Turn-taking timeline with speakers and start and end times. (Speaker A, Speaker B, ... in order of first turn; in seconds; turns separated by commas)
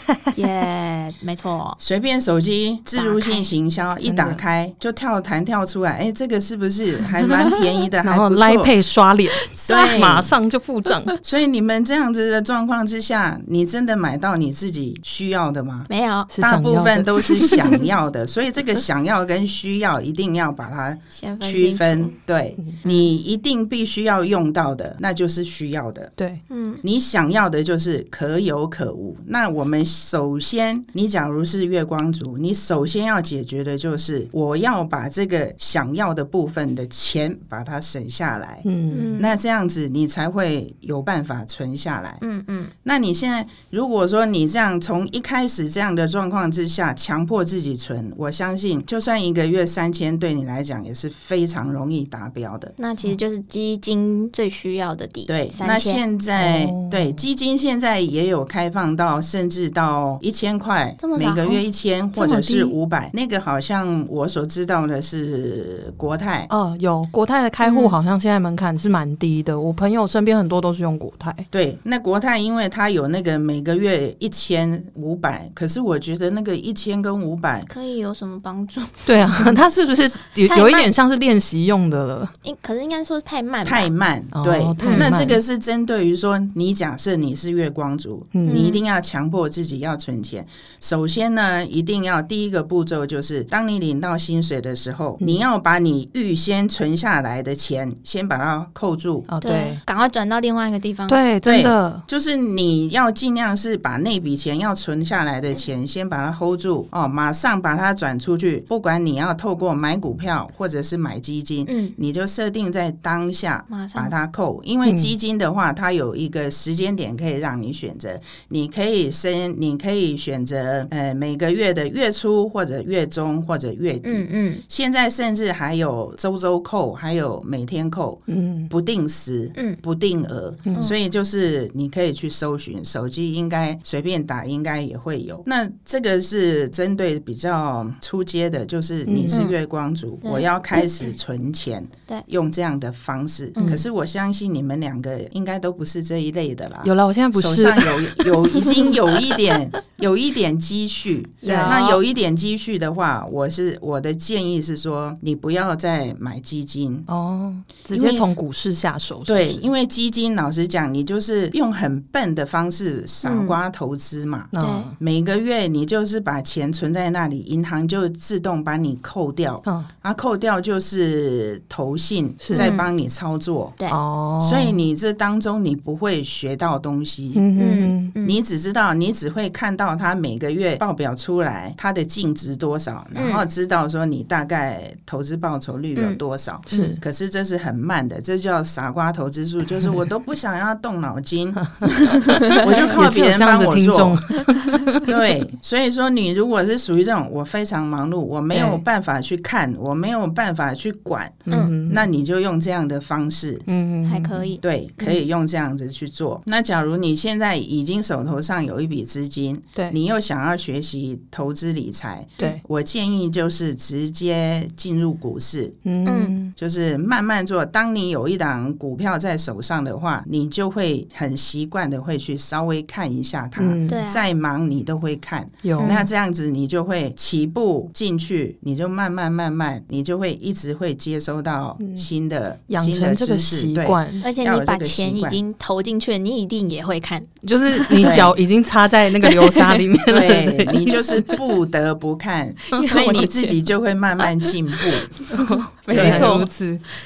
Speaker A: 0.3-1.8, Speaker B: 1.8-8.7, Speaker A: 3.0-3.5, Speaker C: 4.0-4.4, Speaker C: 8.0-11.2, Speaker B: 9.7-10.3, Speaker B: 11.2-26.1, Speaker A: 15.9-16.3, Speaker C: 16.3-17.8, Speaker A: 21.1-22.1, Speaker A: 22.8-23.1, Speaker A: 26.5-26.8, Speaker B: 26.8-38.7, Speaker C: 38.6-39.1, Speaker A: 38.9-39.4, Speaker B: 39.2-42.2, Speaker A: 42.2-42.7, Speaker B: 42.8-52.7, Speaker A: 52.8-56.0, Speaker B: 55.3-66.5, Speaker C: 56.4-57.2, Speaker A: 61.0-61.6, Speaker C: 62.2-62.8, Speaker C: 66.5-71.5, Speaker A: 67.6-68.0, Speaker B: 71.5-77.7, Speaker A: 77.7-79.6, Speaker C: 79.1-82.3, Speaker A: 80.5-80.9, Speaker A: 82.4-83.9, Speaker B: 83.7-99.3, Speaker C: 84.3-85.4, Speaker A: 84.8-85.2, Speaker C: 88.3-88.7, Speaker A: 88.5-88.8, Speaker C: 99.3-99.8, Speaker A: 99.4-101.2, Speaker C: 101.1-102.0, Speaker B: 101.4-157.1, Speaker A: 111.7-112.0, Speaker A: 113.7-114.1, Speaker C: 114.8-115.1, Speaker A: 124.0-124.6, Speaker C: 128.3-128.7, Speaker C: 130.7-130.9, Speaker C: 139.1-139.4, Speaker A: 139.3-139.5, Speaker A: 140.2-140.9, Speaker A: 143.6-143.8, Speaker C: 146.8-148.9, Speaker A: 151.4-152.0, Speaker C: 151.4-151.8, Speaker C: 157.1-159.7, Speaker B: 157.9-158.3, Speaker B: 159.3-173.8, Speaker A: 163.2-163.6, Speaker C: 164.5-165.0, Speaker A: 164.6-164.9, Speaker C: 172.4-172.7, Speaker A: 172.5-172.9, Speaker C: 173.9-174.8, Speaker B: 174.4-177.5, Speaker C: 177.3-178.1, Speaker A: 177.6-178.4, Speaker B: 178.2-191.6, Speaker A: 183.2-183.4, Speaker A: 186.7-186.9, Speaker C: 186.7-187.0, Speaker C: 191.6-191.9, Speaker A: 191.9-192.6, Speaker C: 192.4-195.1, Speaker B: 192.5-194.2, Speaker B: 195.1-203.7, Speaker C: 198.5-198.8, Speaker C: 201.5-202.1, Speaker C: 203.7-204.5, Speaker A: 204.1-205.2, Speaker B: 204.6-215.8, Speaker C: 215.9-216.5, Speaker A: 216.1-216.3, Speaker B: 216.6-235.4, Speaker C: 223.6-224.0, Speaker A: 223.9-224.3, Speaker C: 225.6-226.1, Speaker A: 225.8-226.1, Speaker C: 231.8-232.1, Speaker C: 232.7-234.2, Speaker A: 234.2-238.2, Speaker C: 237.4-241.2, Speaker B: 238.0-238.4, Speaker A: 239.2-239.8, Speaker B: 240.0-245.2, Speaker A: 242.7-243.5, Speaker C: 242.7-243.6, Speaker A: 245.2-246.5, Speaker C: 245.3-246.8, Speaker B: 245.9-246.5